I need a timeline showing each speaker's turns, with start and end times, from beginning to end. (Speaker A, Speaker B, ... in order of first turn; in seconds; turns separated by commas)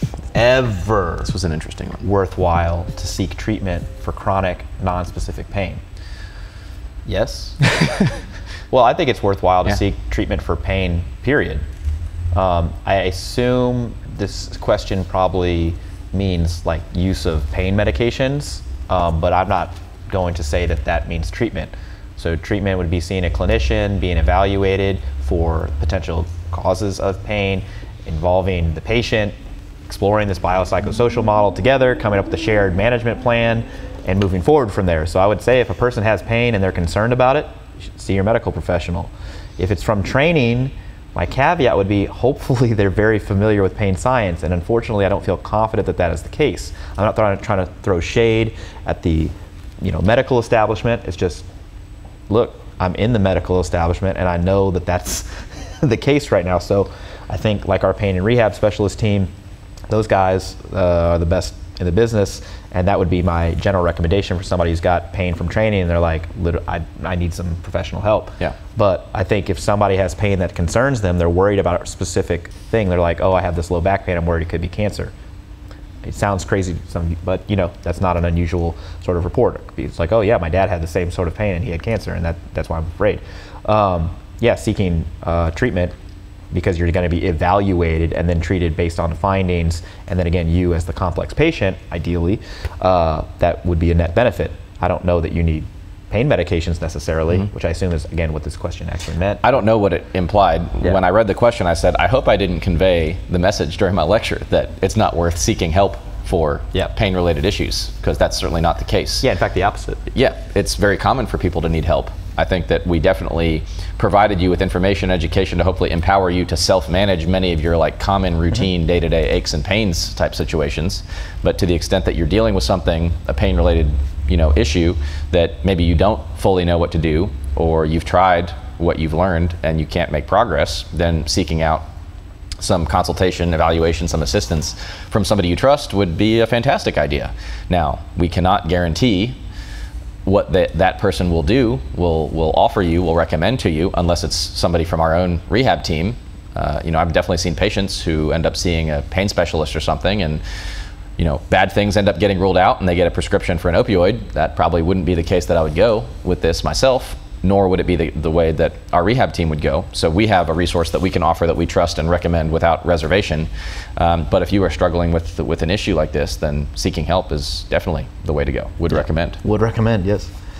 Speaker A: 0.3-1.3, Speaker B: 1.2-2.0, Speaker A: 2.0-5.8, Speaker B: 7.1-7.5, Speaker A: 7.5-7.9, Speaker A: 8.7-11.6, Speaker A: 12.3-29.3, Speaker A: 29.9-51.5, Speaker A: 52.3-59.3, Speaker A: 59.9-75.1, Speaker A: 76.0-85.9, Speaker A: 86.5-99.5, Speaker B: 99.4-109.3, Speaker A: 109.2-110.0, Speaker B: 110.1-131.8, Speaker B: 132.6-139.4, Speaker B: 140.2-150.4, Speaker B: 151.2-169.4, Speaker A: 169.4-170.3